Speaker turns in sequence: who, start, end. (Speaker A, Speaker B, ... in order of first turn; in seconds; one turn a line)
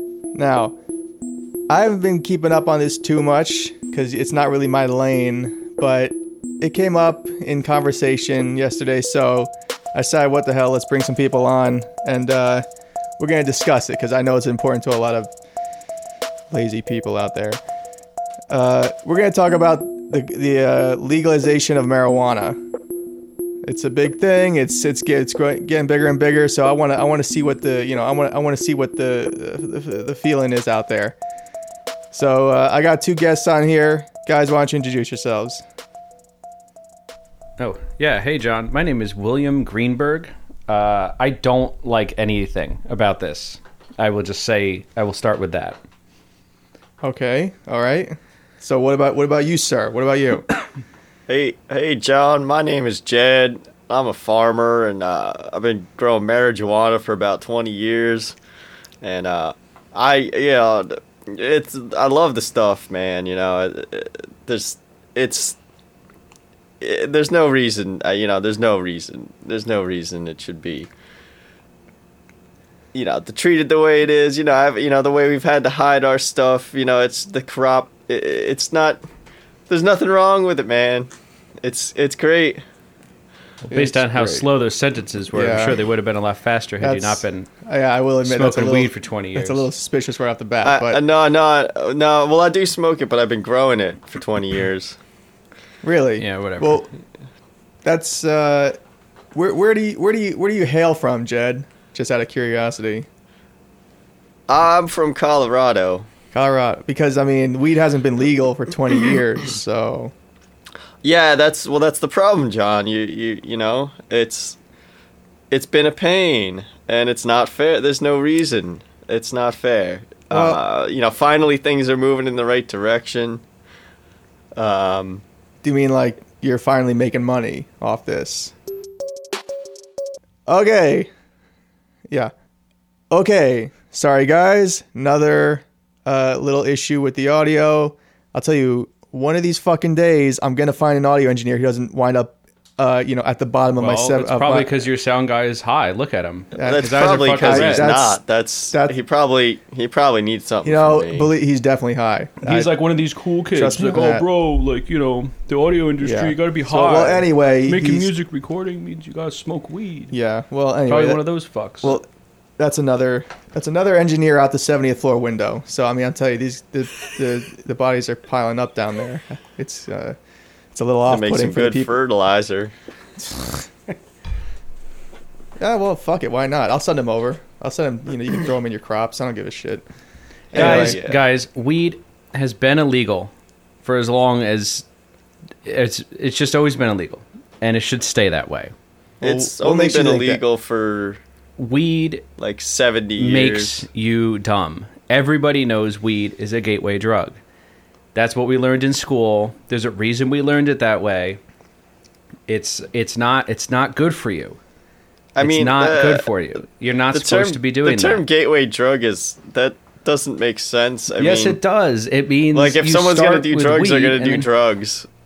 Speaker A: 0.3-0.8
Speaker A: 1.7-12.7
Speaker A: 13.2-15.3
Speaker A: 16.5-17.6
Speaker A: 18.5-22.6
Speaker A: 23.6-31.2
Speaker A: 32.1-35.6
Speaker B: 37.6-45.8
Speaker A: 47.0-50.5
Speaker C: 51.3-58.4
Speaker C: 59.0-65.6
Speaker C: 66.8-70.9
Speaker C: 72.9-79.0
Speaker C: 79.7-81.1
Speaker C: 81.6-82.6
Speaker B: 83.6-87.5
Speaker A: 83.7-84.5
Speaker A: 85.3-85.8
Speaker A: 86.8-91.0
Speaker B: 88.2-89.7
Speaker C: 90.6-95.0
Speaker A: 95.8-96.9
Speaker B: 96.2-96.9
Speaker A: 97.8-98.8
Speaker A: 99.3-103.1
Speaker C: 104.5-106.1
Speaker A: 106.3-110.1
Speaker C: 111.0-114.6
Speaker C: 115.5-123.4
Speaker A: 120.3-120.6
Speaker C: 124.5-125.2
Speaker A: 125.6-128.5
Speaker A: 130.5-131.1
Speaker A: 133.1-144.8
Speaker B: 143.8-147.9
Speaker A: 146.5-148.2
Speaker C: 146.6-151.3
Speaker A: 150.6-152.7
Speaker B: 152.4-160.1
Speaker A: 153.5-154.3
Speaker A: 156.0-158.1
Speaker A: 160.1-161.2
Speaker B: 160.9-162.0
Speaker A: 161.8-162.1
Speaker A: 162.6-170.2
Speaker A: 170.8-171.9
Speaker C: 171.1-172.7
Speaker A: 175.6-179.8
Speaker C: 180.5-181.2
Speaker A: 180.5-181.0
Speaker B: 180.5-183.3
Speaker B: 183.8-184.8
Speaker B: 185.7-188.7
Speaker A: 189.2-190.4
Speaker C: 189.2-191.2
Speaker B: 191.6-192.2
Speaker C: 192.4-193.8
Speaker B: 193.2-197.4
Speaker B: 198.1-201.4
Speaker B: 202.5-204.6
Speaker C: 205.4-206.2
Speaker B: 205.4-208.2
Speaker C: 207.1-211.6
Speaker B: 211.2-214.5
Speaker C: 212.5-215.1